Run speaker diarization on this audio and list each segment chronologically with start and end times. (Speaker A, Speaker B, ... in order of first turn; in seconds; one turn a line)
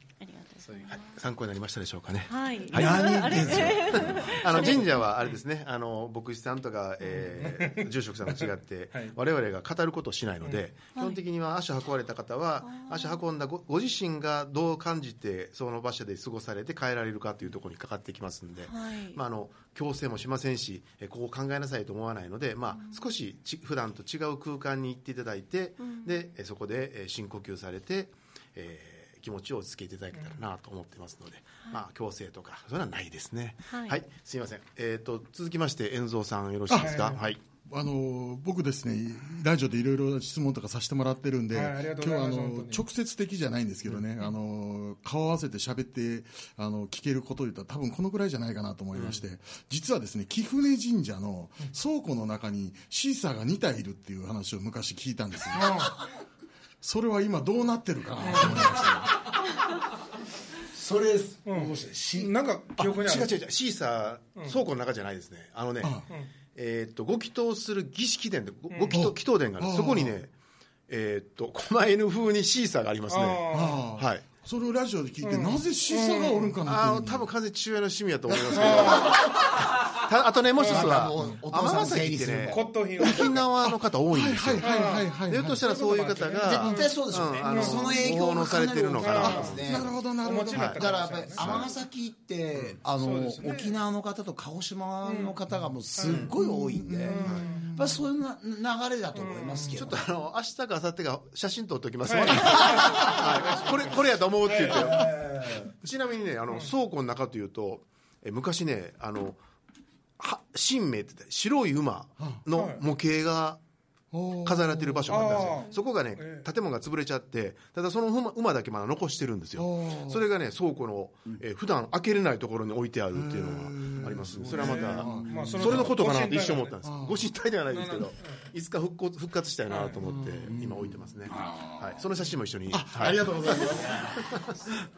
Speaker A: 0.2-1.2
Speaker B: 0.9-37.4
Speaker A: 2.3-5.0
Speaker C: 2.7-4.7
Speaker D: 7.4-9.2
Speaker A: 10.9-11.2
Speaker A: 12.6-13.2
Speaker A: 18.7-19.2
Speaker A: 25.8-26.1
Speaker D: 30.1-30.4
Speaker A: 33.7-34.0
Speaker E: 36.7-37.1
Speaker D: 36.7-37.2
Speaker E: 37.7-55.9
Speaker D: 41.5-42.8
Speaker D: 55.5-55.9
Speaker E: 56.8-59.2
Speaker D: 58.2-58.7
Speaker C: 60.7-62.3
Speaker D: 61.5-63.3
Speaker B: 62.8-66.0
Speaker E: 65.8-66.1
Speaker B: 66.5-70.3
Speaker D: 68.7-69.0
Speaker E: 68.9-70.2
Speaker B: 70.9-73.4
Speaker D: 73.1-73.8
Speaker E: 73.5-77.3
Speaker B: 74.0-74.2
Speaker D: 75.2-76.6
Speaker B: 76.7-89.7
Speaker D: 78.5-79.2
Speaker D: 80.6-81.0
Speaker C: 80.6-82.7
Speaker D: 82.5-83.5
Speaker E: 83.6-85.7
Speaker D: 84.6-87.9
Speaker C: 86.4-90.0
Speaker D: 89.0-89.6
Speaker E: 89.2-90.8
Speaker D: 90.2-91.6
Speaker B: 90.5-90.8
Speaker C: 90.8-100.0
Speaker B: 91.4-91.7
Speaker D: 93.0-93.8
Speaker D: 95.0-95.4
Speaker D: 96.0-96.3
Speaker E: 96.3-98.0
Speaker D: 97.0-97.7
Speaker B: 97.2-97.5
Speaker D: 99.2-99.8
Speaker B: 99.7-109.4
Speaker D: 102.0-105.6
Speaker D: 106.5-106.7
Speaker B: 110.2-113.6
Speaker E: 112.2-112.4
Speaker D: 112.5-112.8
Speaker E: 114.1-115.7
Speaker B: 114.5-125.1
Speaker D: 115.1-116.5
Speaker E: 119.6-120.2
Speaker E: 123.1-125.7
Speaker D: 124.4-126.7
Speaker C: 125.0-125.9
Speaker B: 125.6-134.5
Speaker E: 126.8-127.3
Speaker D: 127.7-128.5
Speaker D: 129.7-130.0
Speaker E: 130.0-130.6
Speaker C: 130.5-132.0
Speaker E: 132.7-134.1
Speaker C: 133.4-134.5